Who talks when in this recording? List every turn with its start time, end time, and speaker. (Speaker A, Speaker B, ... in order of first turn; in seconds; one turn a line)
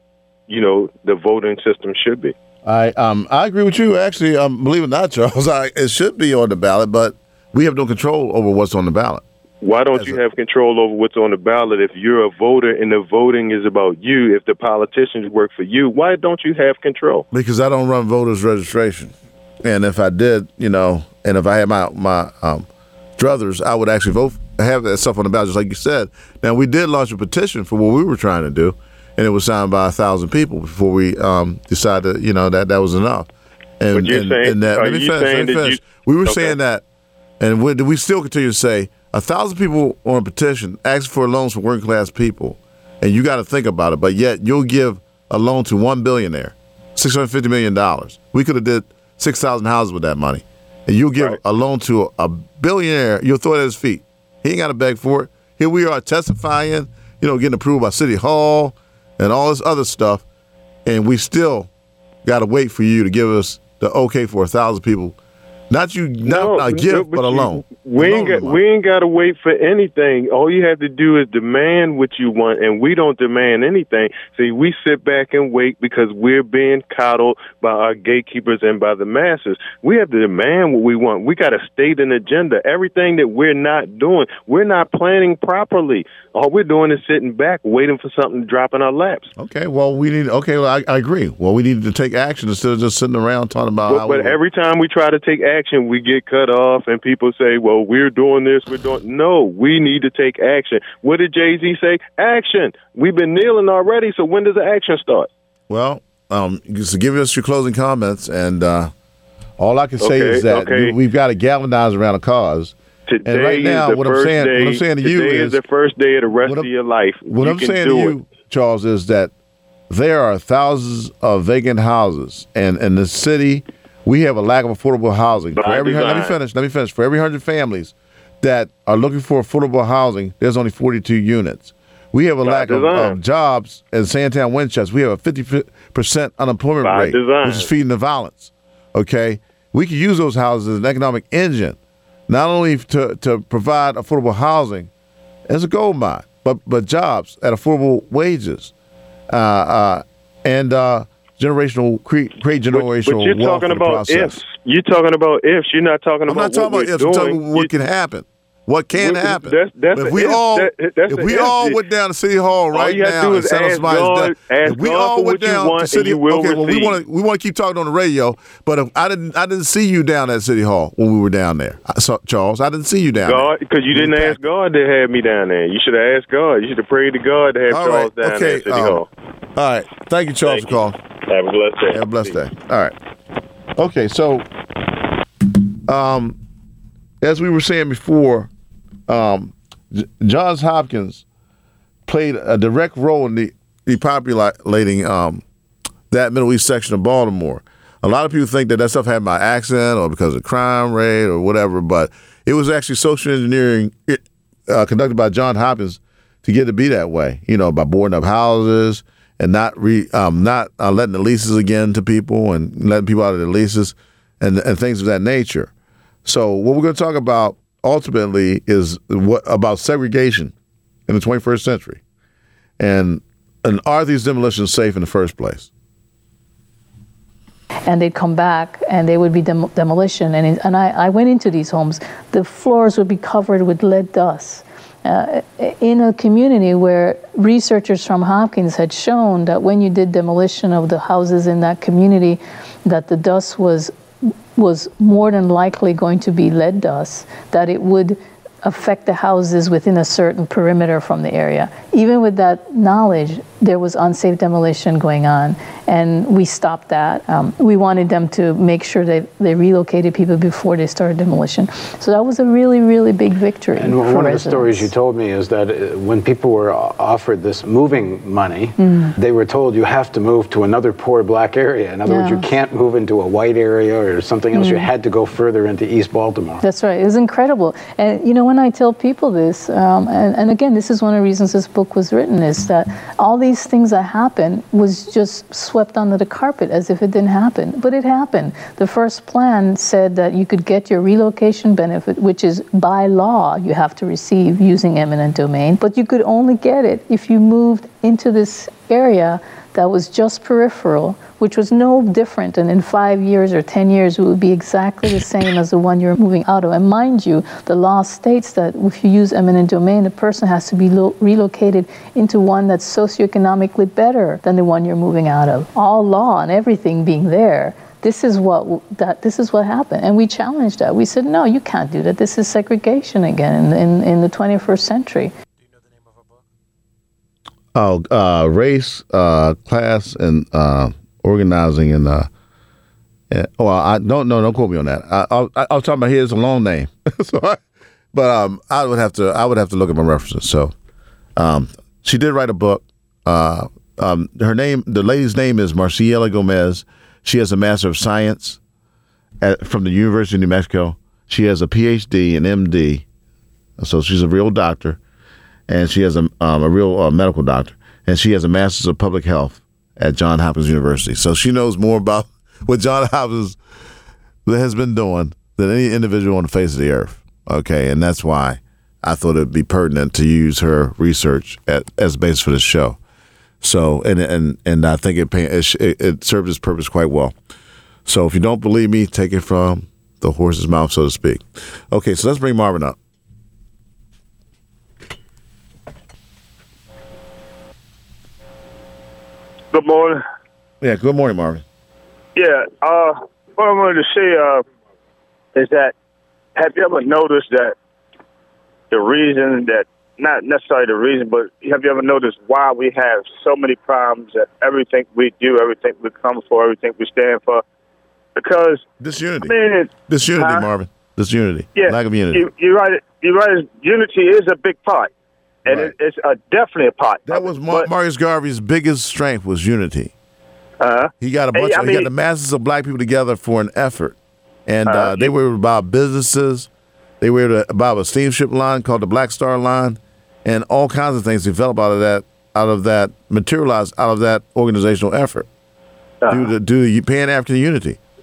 Speaker A: 0.5-2.3
Speaker B: 2.6-9.2
Speaker A: 9.6-17.2
Speaker B: 17.3-33.3
Speaker B: 33.8-36.8
Speaker A: 33.9-36.5
Speaker B: 37.4-60.2
Speaker B: 60.9-61.7
Speaker B: 62.2-65.2
Speaker B: 65.7-68.6
Speaker A: 66.2-89.3
Speaker B: 89.4-94.4
Speaker A: 93.9-105.3
Speaker B: 105.7-108.9
Speaker B: 109.6-112.8
Speaker A: 110.0-111.0
Speaker A: 113.1-118.2
Speaker B: 113.3-115.6
Speaker B: 116.5-116.7
Speaker B: 117.3-119.3
Speaker B: 119.9-144.9
Speaker A: 125.5-126.4
Speaker A: 132.4-133.2
Speaker A: 136.8-137.7
Speaker B: 145.5-148.7
Speaker B: 149.3-154.4
Speaker A: 152.7-157.7
Speaker B: 156.3-174.4
Speaker A: 158.9-161.8
Speaker A: 162.7-167.0
Speaker A: 173.2-179.1
Speaker B: 177.7-179.0
Speaker B: 179.6-181.0
Speaker A: 180.4-182.4
Speaker B: 181.9-182.9
Speaker B: 183.8-184.5
Speaker B: 185.9-186.4
Speaker B: 187.2-188.5
Speaker B: 189.1-191.2
Speaker B: 192.1-195.4
Speaker B: 196.1-215.7
Speaker B: 216.2-220.5
Speaker B: 221.1-222.0
Speaker B: 222.8-225.7
Speaker C: 227.9-243.9
Speaker C: 244.6-264.9
Speaker D: 263.8-276.6
Speaker C: 268.8-269.1
Speaker C: 272.1-272.5
Speaker C: 274.5-274.9
Speaker C: 276.6-325.3
Speaker B: 327.7-332.3
Speaker B: 333.3-337.6
Speaker B: 338.1-340.7
Speaker B: 341.4-348.6
Speaker B: 349.4-353.1
Speaker B: 353.8-355.0
Speaker B: 355.7-363.6
Speaker B: 364.5-373.0
Speaker B: 373.6-377.4
Speaker B: 378.1-383.0
Speaker E: 389.7-390.2
Speaker B: 390.8-391.6
Speaker E: 392.4-394.6
Speaker E: 395.6-395.9
Speaker E: 396.6-397.8
Speaker E: 398.9-407.6
Speaker E: 408.4-408.8
Speaker B: 409.0-409.6
Speaker E: 409.4-410.7
Speaker B: 410.1-412.5
Speaker E: 411.8-415.1
Speaker E: 415.7-417.9
Speaker B: 415.7-415.9
Speaker B: 417.3-420.1
Speaker E: 420.8-422.1
Speaker B: 421.2-426.7
Speaker E: 424.9-425.3
Speaker B: 427.2-435.5
Speaker B: 436.3-438.0